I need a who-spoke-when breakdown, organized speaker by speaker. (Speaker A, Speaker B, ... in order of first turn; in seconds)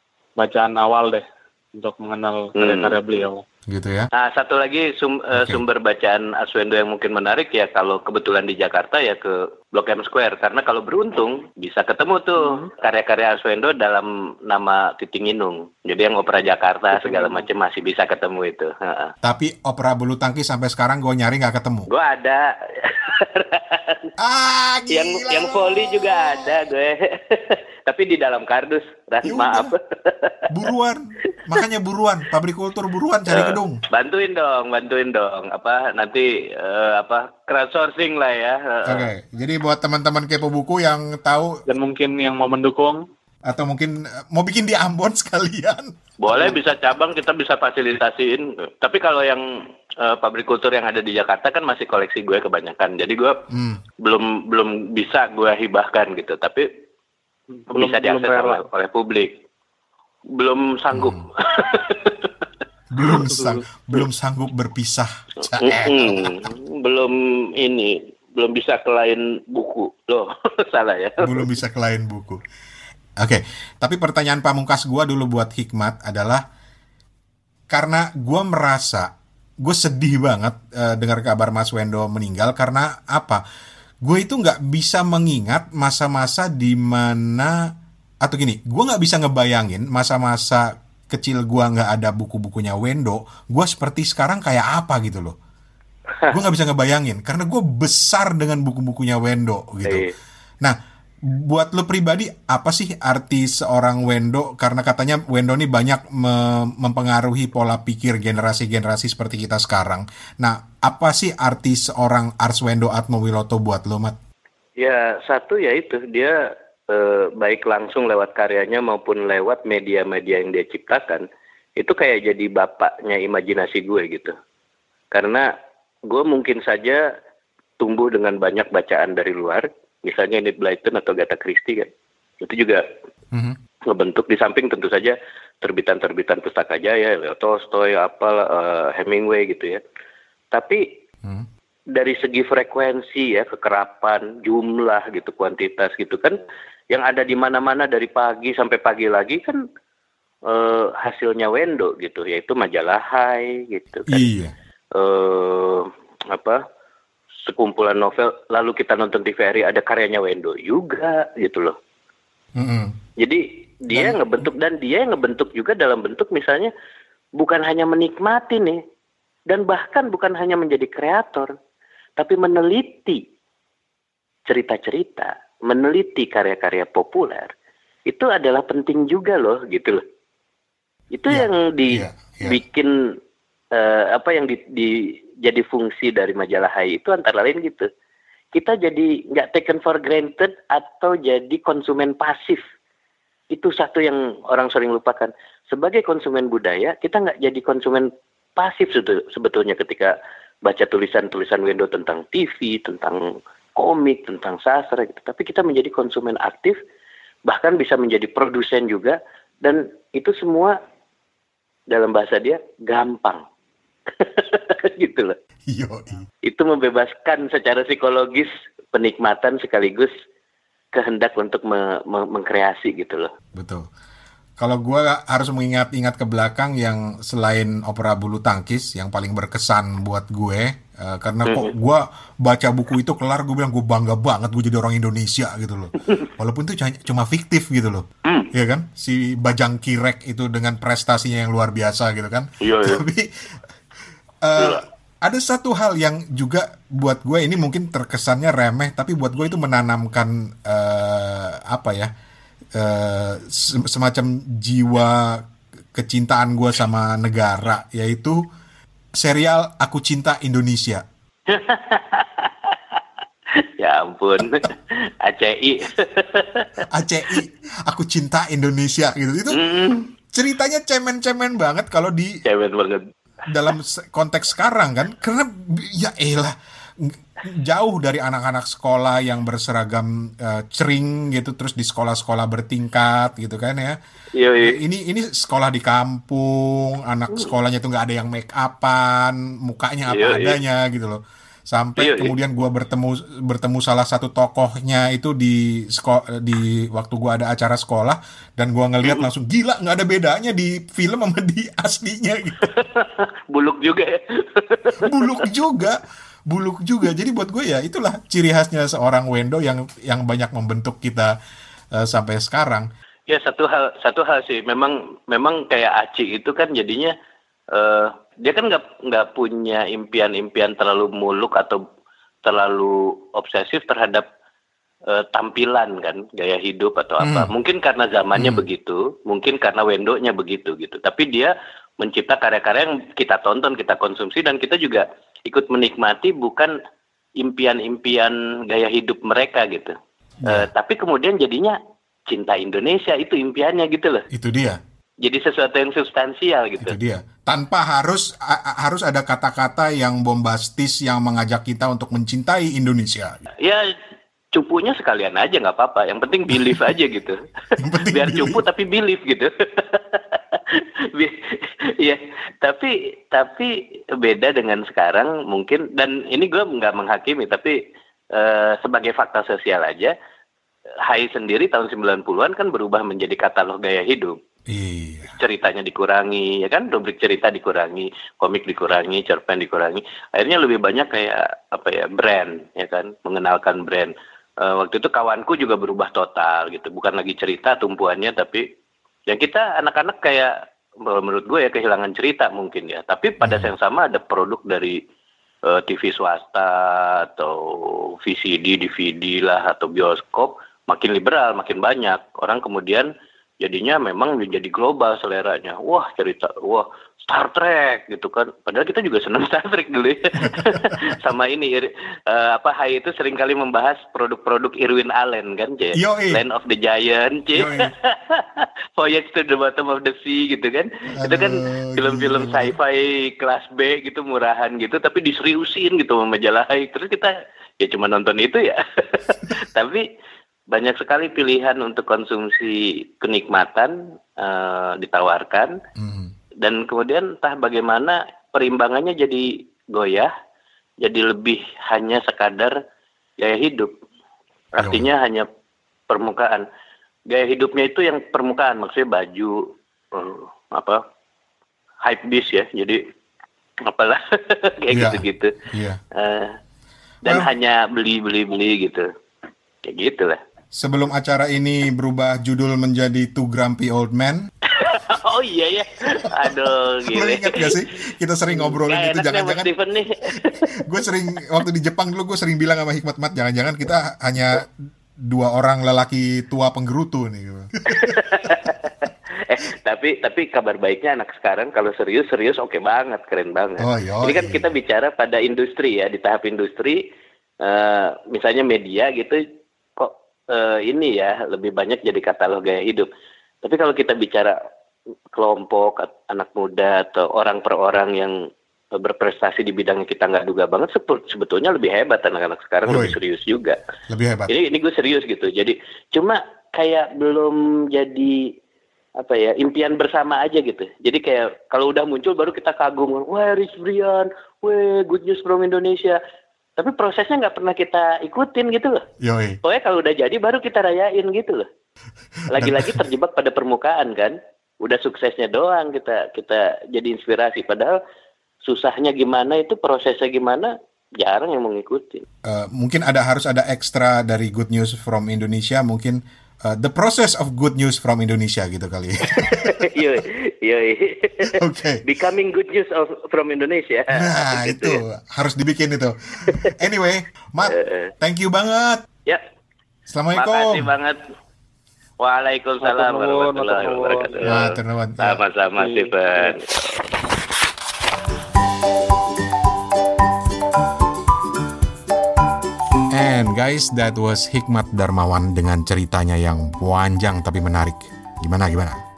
Speaker A: 0.4-3.4, 17.0-17.3, 41.7-43.0, 57.7-58.6, 552.8-554.7, 555.8-556.5
Speaker B: 2.6-3.0, 4.1-19.1, 21.9-24.1, 24.9-30.5, 33.3-39.1, 46.2-49.5, 50.0-53.4, 54.0-56.7, 57.7-59.4, 60.3-62.3, 63.0-64.0, 65.4-71.5, 99.8-100.2, 114.8-121.3, 121.8-124.3, 125.1-125.5, 126.1-127.0, 127.8-131.9, 132.4-132.8, 133.9-139.8, 140.5-140.9, 141.9-146.4, 146.9-149.6, 150.5-154.3, 154.9-156.6, 157.5-161.8, 163.2-166.7, 167.4-168.8, 169.5-171.5, 172.2-173.2, 174.5-177.5, 178.1-180.0, 181.1-183.2, 183.7-187.9, 188.5-192.6, 193.5-206.8, 207.5-210.8, 211.9-213.4, 214.1-215.4, 216.4-220.1, 220.9-223.3, 231.5-231.7, 242.6-243.0, 244.6-244.8, 261.5-263.0, 263.6-266.7, 269.5-270.1, 272.4-273.1, 284.4-284.8, 290.1-290.6, 292.0-292.3, 302.6-305.5, 313.3-317.1, 317.7-321.8, 322.4-324.3, 325.1-336.7, 337.4-344.3, 345.2-347.0, 353.6-353.9, 354.5-367.8, 368.3-370.1, 371.1-374.4, 375.3-388.7, 389.3-395.0, 395.7-430.1, 430.7-435.8, 436.6-440.3, 441.0-442.8, 443.4-443.9, 444.8-445.5, 446.1-446.7, 447.3-451.0, 452.0-453.0, 453.9-455.5, 456.1-456.6, 457.2-459.1, 459.9-460.4, 464.7-467.9, 468.5-470.8, 477.9-487.0, 487.6-489.4, 490.0-493.1, 493.6-494.6, 495.3-503.8, 504.5-508.5, 509.2-516.2, 516.8-519.0, 519.6-521.7, 522.5-528.0, 528.6-532.2, 539.3-545.0, 547.6-548.1, 550.3-551.2, 552.2-557.1
Speaker C: 3.7-4.1, 5.3-5.6, 19.2-21.9, 24.2-26.5, 29.2-29.7, 30.5-33.8, 38.9-41.6, 43.5-46.6, 53.5-53.8, 60.9-61.3, 62.9-66.5, 71.2-72.4, 73.2-76.4, 77.7-83.4, 84.0-95.3, 96.3-100.1, 100.6-114.2, 133.3-133.6, 154.1-154.5, 162.6-163.0, 163.9-164.5, 181.3-182.6, 215.7-216.3, 223.5-223.9, 224.6-243.3, 244.4-252.1, 252.8-258.4, 259.1-261.0, 266.9-269.6, 270.3-272.3, 273.5-284.0, 284.6-302.7, 305.0-311.3, 311.9-312.9, 327.2-327.5, 328.4-328.6, 340.4-340.7, 344.3-344.8, 346.8-353.4, 356.6-356.8, 357.8-358.6, 374.7-375.4, 393.4-393.7, 410.4-411.2, 415.9-416.4, 417.6-417.9, 421.2-422.8, 436.0-436.3, 444.8-445.1, 454.9-456.0, 460.7-464.5, 466.2-469.7, 470.7-478.7, 483.8-484.7, 502.9-503.2, 504.1-504.5, 519.2-519.6, 522.6-523.0, 532.5-540.0, 541.5-542.0, 544.1-549.0, 550.1-550.9, 554.5-555.4, 563.1-569.0